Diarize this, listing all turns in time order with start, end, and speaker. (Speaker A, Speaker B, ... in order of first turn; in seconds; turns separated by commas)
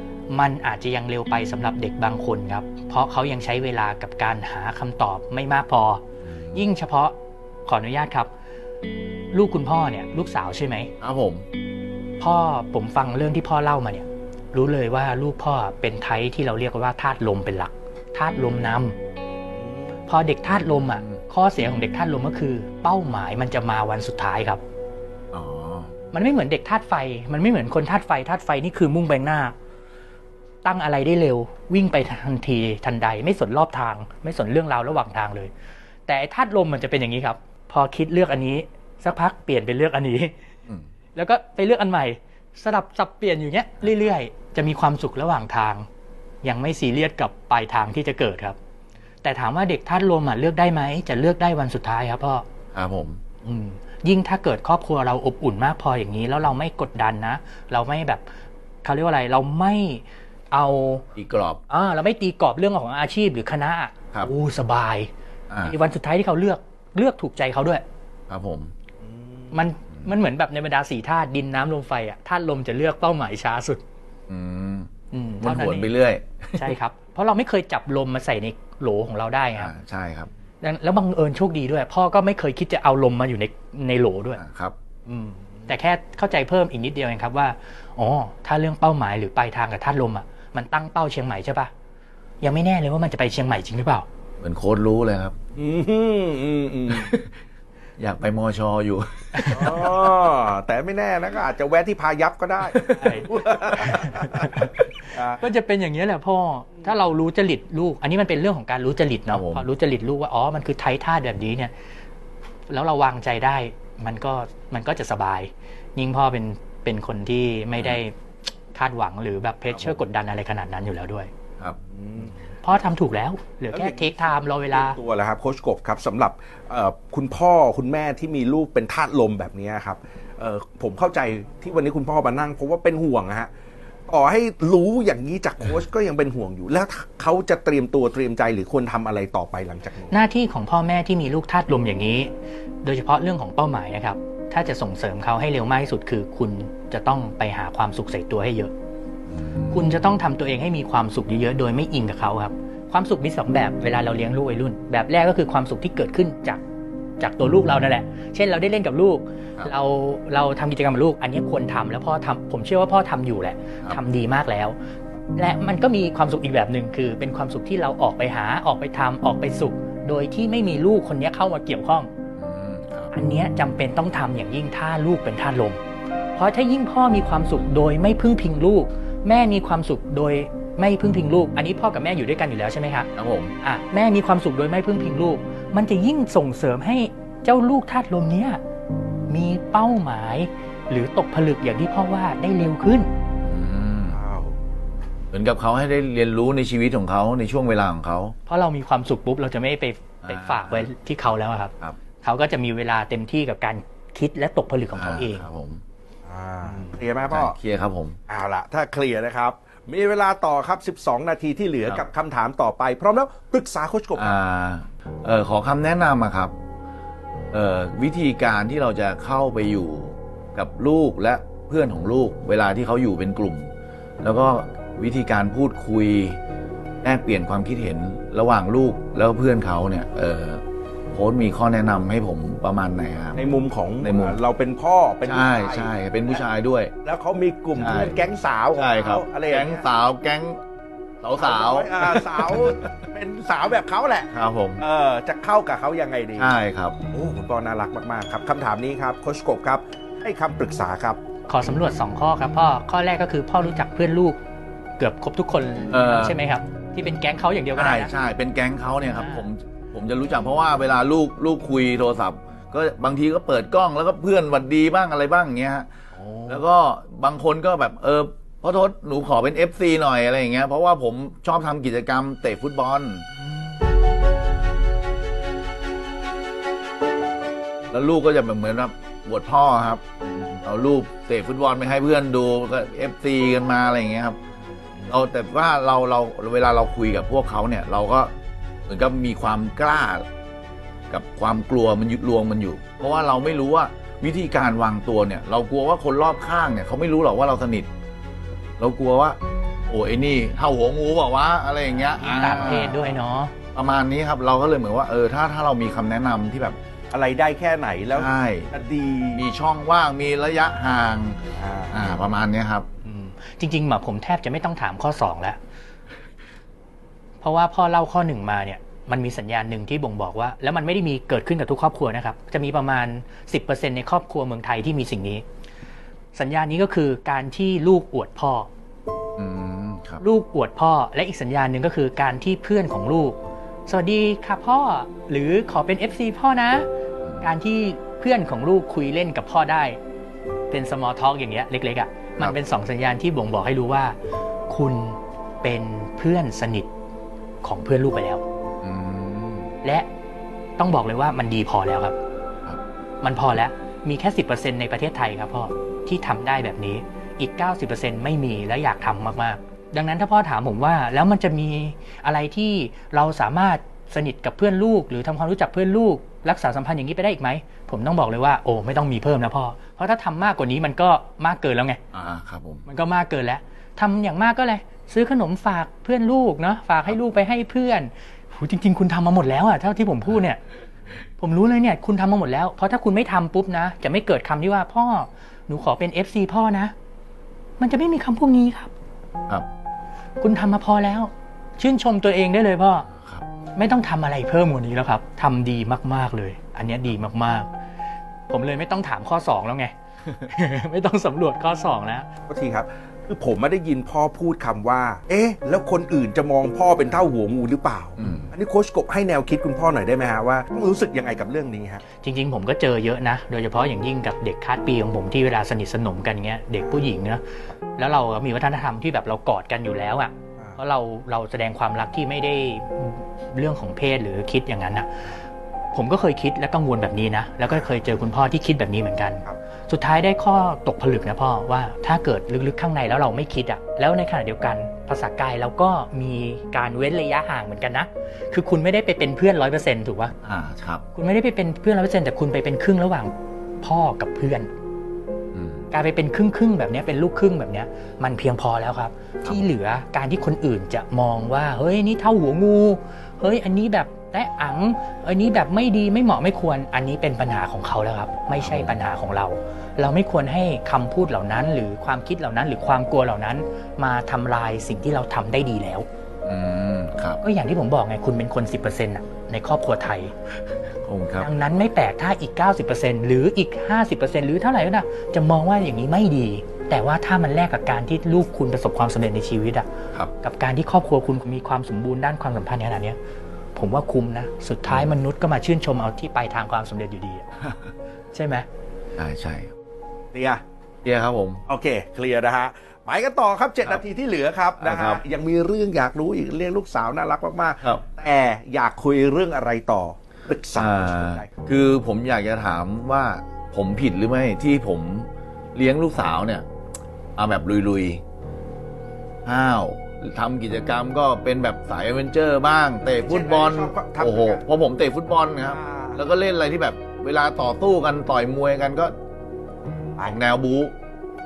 Speaker A: 0.3-6.0, Speaker B: 6.2-6.6, Speaker A: 6.5-7.1, Speaker A: 7.7-8.3, Speaker A: 9.3-10.9, Speaker B: 11.0-11.4, Speaker A: 12.2-18.9, Speaker C: 19.6-20.0, Speaker A: 20.1-24.6, Speaker B: 20.5-21.2, Speaker B: 25.3-25.9, Speaker A: 26.1-29.5, Speaker A: 30.6-35.5, Speaker A: 36.1-40.3, Speaker A: 41.1-45.9, Speaker A: 46.4-48.6, Speaker A: 49.2-52.4, Speaker B: 52.7-53.2, Speaker A: 53.4-58.2, Speaker A: 58.8-61.0, Speaker B: 61.1-61.6, Speaker A: 61.7-65.1, Speaker B: 65.5-65.7, Speaker A: 65.6-67.8, Speaker B: 68.3-68.7, Speaker C: 69.0-69.6, Speaker A: 69.5-73.8, Speaker B: 74.3-74.9, Speaker A: 75.1-75.9, Speaker B: 75.4-76.7, Speaker A: 76.6-79.7, Speaker B: 79.5-80.3, Speaker A: 80.6-84.4, Speaker B: 84.4-84.7, Speaker A: 85.1-91.7, Speaker A: 92.4-94.0, Speaker B: 94.4-95.3, Speaker C: 95.5-97.2, Speaker B: 96.9-97.3, Speaker B: 98.0-99.9, Speaker A: 99.3-99.9, Speaker C: 99.5-105.4, Speaker B: 102.8-103.2, Speaker A: 102.9-103.3, Speaker A: 103.8-111.7, Speaker B: 109.3-109.7, Speaker A: 112.7-118.1, Speaker B: 117.7-118.0, Speaker A: 118.7-121.3, Speaker B: 119.7-120.0, Speaker C: 121.8-122.4, Speaker A: 122.6-125.0, Speaker C: 123.7-133.5, Speaker C: 134.1-140.2, Speaker A: 140.1-142.3, Speaker A: 142.8-148.7, Speaker B: 149.3-149.9, Speaker A: 149.7-156.6, Speaker A: 157.2-164.8, Speaker A: 165.3-172.1, Speaker B: 172.4-173.1, Speaker A: 173.1-175.8, Speaker A: 176.3-183.1, Speaker B: 183.2-183.5, Speaker A: 183.6-188.6, Speaker A: 189.3-193.1, Speaker B: 193.4-194.2, Speaker C: 194.1-194.6, Speaker B: 195.3-198.3, Speaker A: 198.4-205.4, Speaker B: 200.2-200.9, Speaker B: 204.9-205.8, Speaker C: 206.2-207.6, Speaker B: 207.3-208.2, Speaker C: 208.3-214.3, Speaker B: 214.1-216.5, Speaker B: 217.5-226.4, Speaker B: 227.0-233.4, Speaker C: 233.3-236.4, Speaker B: 234.0-234.4, Speaker B: 235.2-236.9, Speaker C: 237.0-239.8, Speaker B: 237.8-238.2, Speaker B: 238.7-240.6, Speaker B: 241.2-242.8, Speaker C: 241.4-246.5, Speaker B: 244.3-244.8, Speaker B: 246.4-246.9, Speaker C: 247.1-251.2, Speaker A: 251.5-254.4, Speaker A: 255.0-258.1, Speaker B: 255.9-256.4, Speaker B: 257.7-265.9, Speaker A: 259.1-259.4, Speaker A: 266.1-266.6, Speaker B: 266.5-273.3, Speaker B: 277.9-284.4, Speaker B: 285.1-288.3, Speaker B: 288.9-290.2, Speaker B: 291.1-297.9, Speaker B: 298.8-303.1, Speaker A: 302.2-303.5, Speaker B: 303.7-306.8, Speaker C: 307.1-309.5, Speaker B: 308.1-308.7, Speaker B: 309.3-311.4, Speaker C: 311.5-312.1, Speaker B: 311.9-312.9, Speaker A: 313.0-315.6, Speaker A: 317.4-325.4, Speaker A: 326.3-328.7, Speaker B: 329.4-330.2, Speaker A: 330.2-336.9, Speaker B: 337.2-337.5, Speaker A: 337.4-340.0, Speaker A: 340.7-344.2, Speaker A: 344.7-346.9, Speaker A: 347.6-348.4, Speaker B: 348.8-349.7, Speaker A: 349.8-350.1, Speaker A: 350.8-352.1, Speaker A: 353.2-372.0, Speaker B: 372.1-372.8, Speaker A: 372.9-380.6, Speaker A: 381.4-386.9, Speaker A: 387.8-388.9, Speaker A: 390.4-393.1, Speaker B: 393.1-393.4, Speaker A: 393.8-397.7, Speaker A: 398.5-402.3, Speaker C: 402.5-412.0, Speaker B: 408.2-408.5, Speaker A: 412.2-417.4, Speaker A: 418.0-425.3, Speaker A: 425.9-440.3, Speaker B: 440.4-441.0, Speaker A: 441.1-444.7, Speaker B: 445.5-445.9, Speaker A: 445.9-466.1, Speaker B: 458.6-459.0, Speaker B: 466.4-467.4, Speaker A: 467.4-470.3, Speaker B: 471.0-471.5, Speaker A: 471.4-479.9, Speaker A: 480.4-483.2, Speaker A: 483.7-487.6, Speaker B: 484.9-485.1, Speaker A: 488.3-488.6, Speaker B: 489.1-489.7, Speaker C: 490.3-490.6, Speaker B: 491.0-491.6, Speaker C: 491.7-501.5, Speaker B: 494.8-495.2, Speaker B: 500.7-506.6, Speaker B: 507.4-508.2, Speaker B: 509.4-519.1, Speaker C: 513.2-514.6, Speaker C: 515.6-516.2, Speaker B: 520.2-520.9